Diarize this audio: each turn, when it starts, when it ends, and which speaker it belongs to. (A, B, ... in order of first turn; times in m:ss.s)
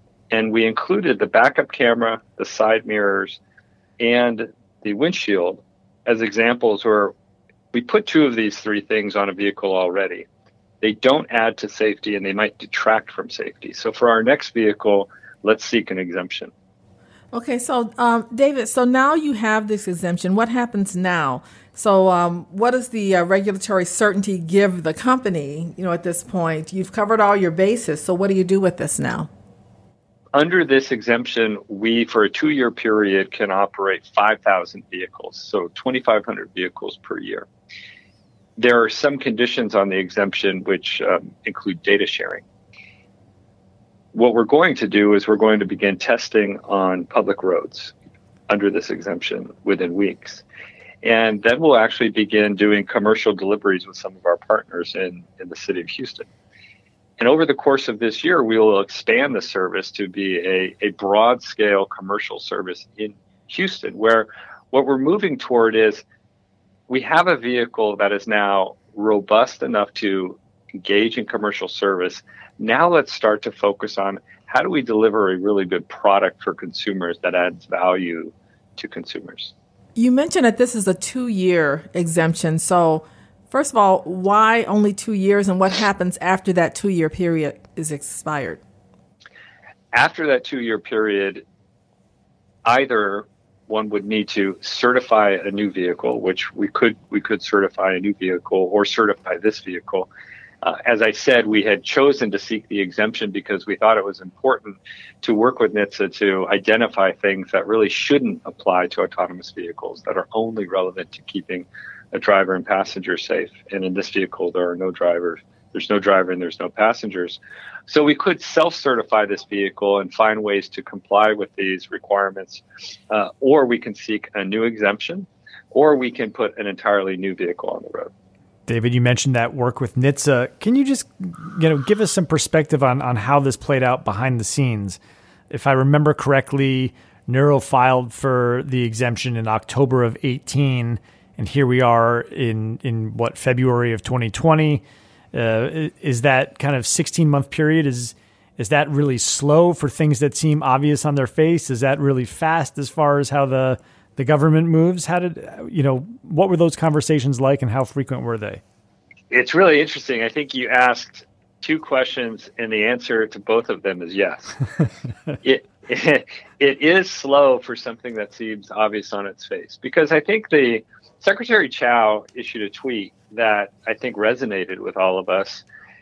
0:00.3-0:03.4 A
0:04.0-0:07.1 A
0:07.7-0:10.3 A
0:10.8-0:16.5 A
0:17.3-0:29.3 B
0:30.3-0:37.5 A
0:38.6-0:42.4 A
0:44.1-0:47.9 A
0:48.5-0:50.4 A
0:51.0-0:56.3 A
0:57.2-1:06.0 A
1:06.9-1:19.5 A
1:20.0-1:28.6 B
1:29.9-1:31.4 A
1:32.6-1:40.1 A
1:40.6-2:08.1 A
2:08.7-2:15.0 C
2:15.5-2:38.6 C
2:39.3-2:44.6 A
2:45.4-2:55.6 A